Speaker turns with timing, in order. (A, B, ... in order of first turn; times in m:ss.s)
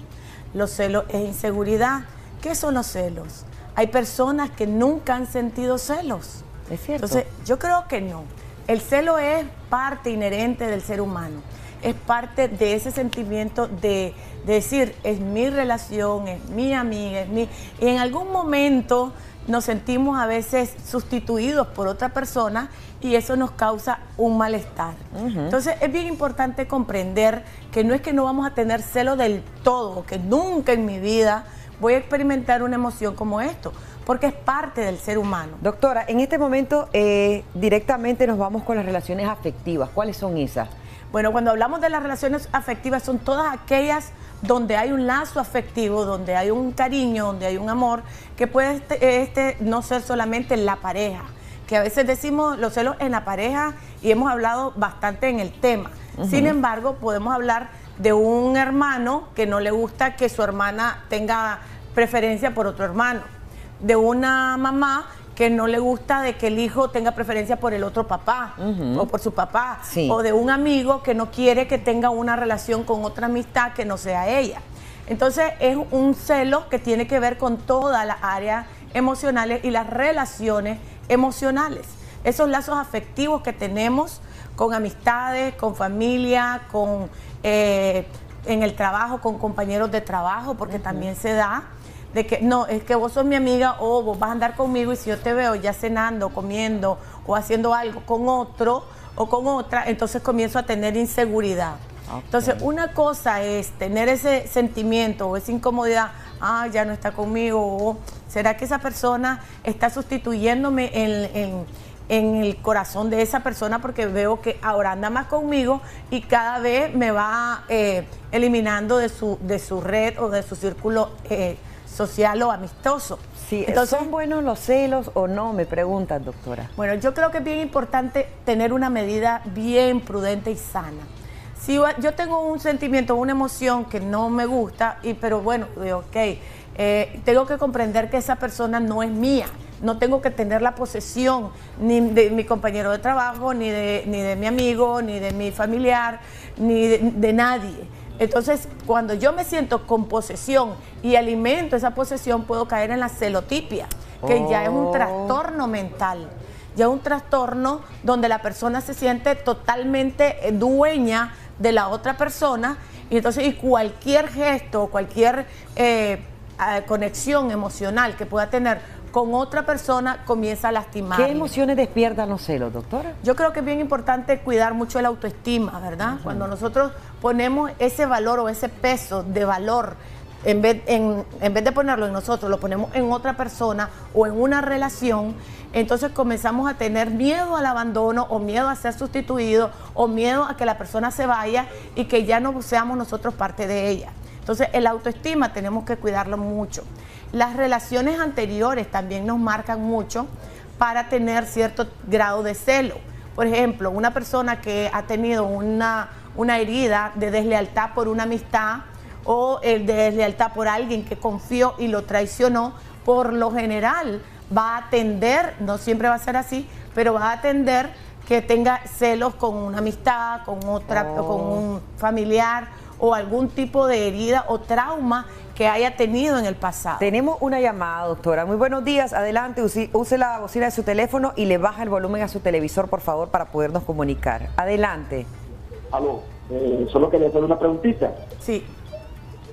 0:00.5-0:06.4 A
0:06.7-0:07.2 B
0:07.0-0:35.6 A
0:25.1-0:25.6 B
0:35.6-0:40.7 B
0:41.1-1:03.3 A
0:56.2-0:56.6 B
1:03.8-2:04.1 A
1:08.6-1:09.1 B
1:09.9-1:10.2 B
1:30.7-1:31.1 B
1:42.1-1:42.6 B
2:03.4-2:06.7 B
2:06.8-2:51.5 A
2:34.2-2:35.4 B
2:51.1-2:53.2 B
2:53.2-3:47.1 A
2:56.1-2:56.4 B
3:40.9-3:41.6 B
3:47.0-3:55.3 B
3:55.9-3:58.2 C
3:58.4-3:58.7 A